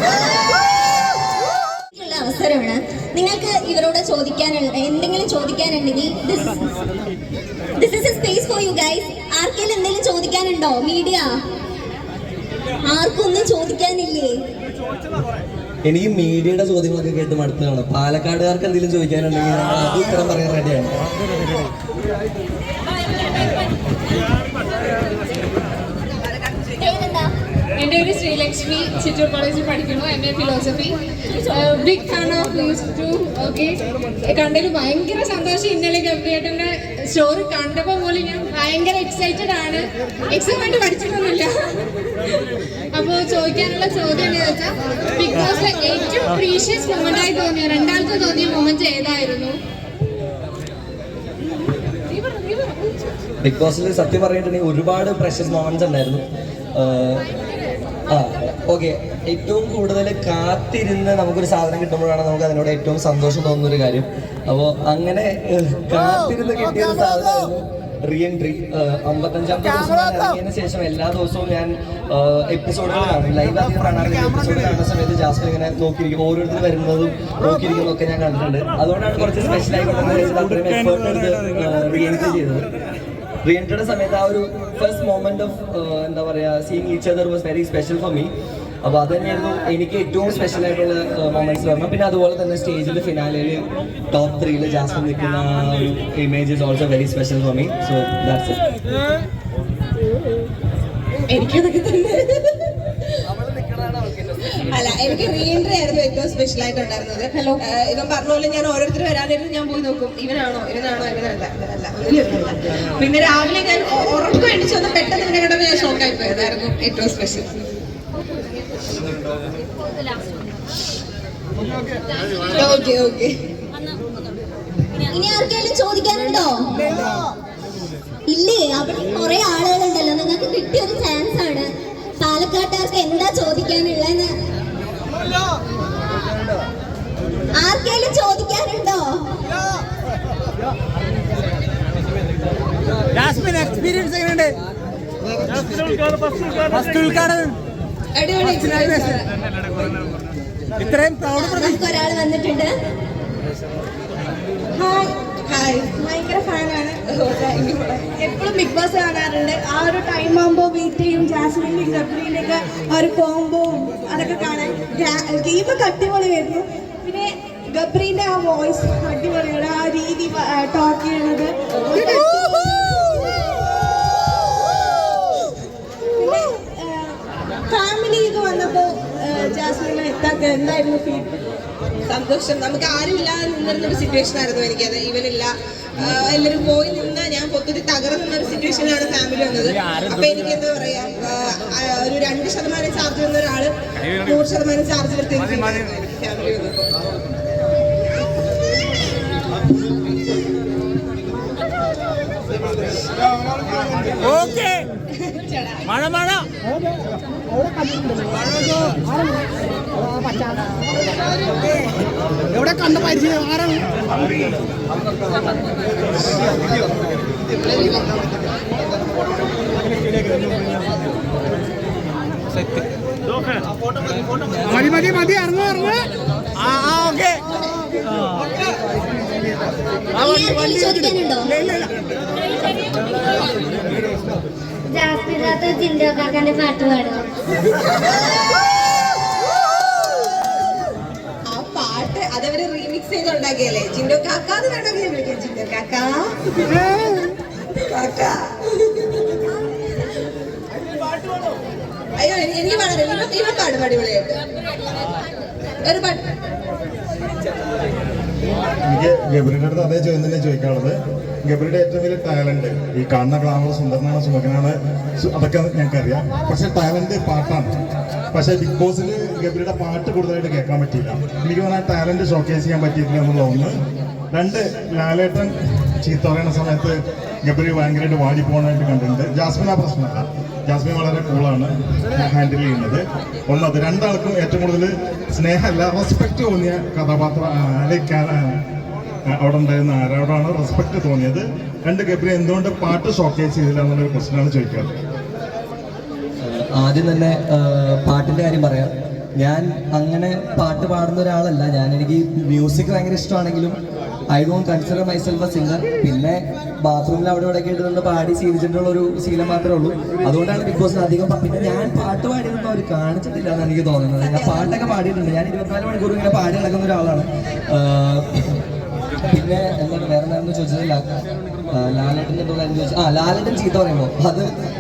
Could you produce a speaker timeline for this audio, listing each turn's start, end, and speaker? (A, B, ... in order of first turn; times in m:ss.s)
0:02.0-0:06.6 A
0:07.8-0:11.3 A
0:12.8-0:14.4 A
0:15.8-0:20.9 B
0:26.2-0:27.0 C
0:26.8-0:27.3 A
0:27.8-0:41.5 D
0:42.3-0:49.6 D
0:53.4-0:57.3 B
0:58.1-1:22.7 B
1:23.4-1:28.3 B
1:28.8-1:38.6 B
1:41.3-1:42.7 C
1:44.7-1:57.5 C
2:02.5-2:03.3 C
2:05.1-2:06.7 A
2:08.3-2:14.3 A
2:17.6-2:19.2 A
2:23.2-2:24.5 E
2:26.8-2:27.3 E
2:28.2-2:29.2 C
2:30.9-2:31.3 E
2:31.3-2:32.7 A
2:34.8-2:37.0 F
2:35.5-2:36.0 C
2:37.1-2:38.1 C
2:38.2-2:53.3 F
2:56.2-2:57.2 F
2:57.7-3:01.3 F
3:02.1-3:16.9 C
3:24.3-3:24.8 E
3:25.2-3:25.9 C
3:26.1-3:26.4 E
3:50.1-3:51.7 A
3:54.9-3:57.2 G
4:01.5-4:06.3 C
4:07.8-4:08.5 C
4:12.2-4:14.4 C
4:15.8-4:16.2 C
4:18.9-4:27.8 H
4:28.3-4:33.8 H
4:34.3-4:48.6 H
4:49.3-4:54.9 H
4:56.4-5:03.8 B
5:04.3-5:18.6 B
5:14.2-5:14.7 C
5:19.3-5:21.0 B
5:21.7-5:24.5 B